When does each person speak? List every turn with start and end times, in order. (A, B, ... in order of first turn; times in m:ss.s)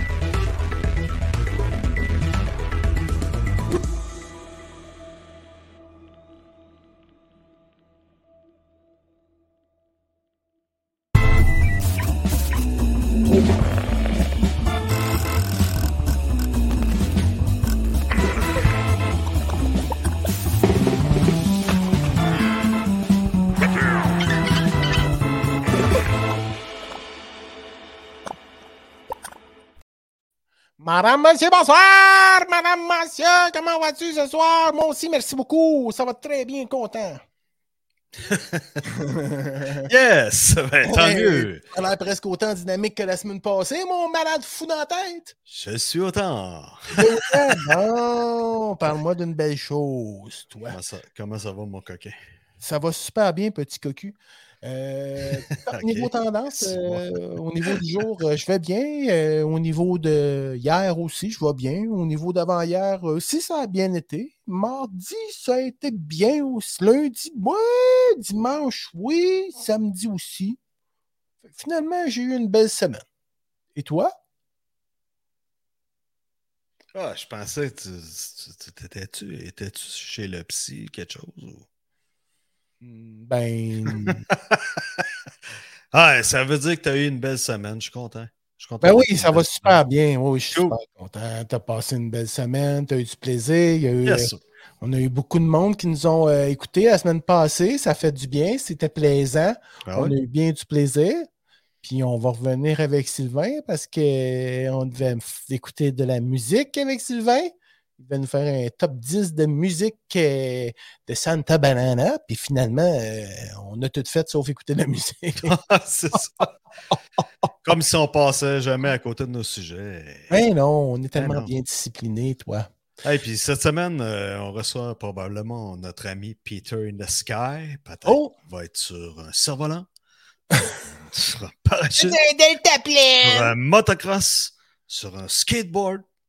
0:30.8-0:37.2 A
0:38.2-0:38.8 B
0:38.9-0:39.9 A
0:39.9-0:41.6 B
0:40.8-0:45.3 A
0:45.5-0:47.0 B
0:46.9-0:50.8 A
0:50.7-0:52.2 B
0:52.6-1:10.6 A
0:55.4-0:57.8 B
1:11.5-1:13.0 A
1:13.7-1:14.1 A
1:16.9-1:21.6 B
1:22.8-1:24.2 A
1:23.8-1:25.1 B
1:25.9-1:29.8 B
1:28.8-1:41.3 A
1:34.0-1:34.4 B
1:39.8-1:40.1 B
1:41.8-1:55.5 A
1:55.4-1:56.5 B
1:57.6-2:00.3 B
2:00.3-2:02.7 A
2:01.1-2:01.5 B
2:03.0-2:09.9 B
2:08.0-2:08.3 A
2:11.0-2:12.2 B
2:12.0-2:13.5 A
2:13.2-2:16.0 B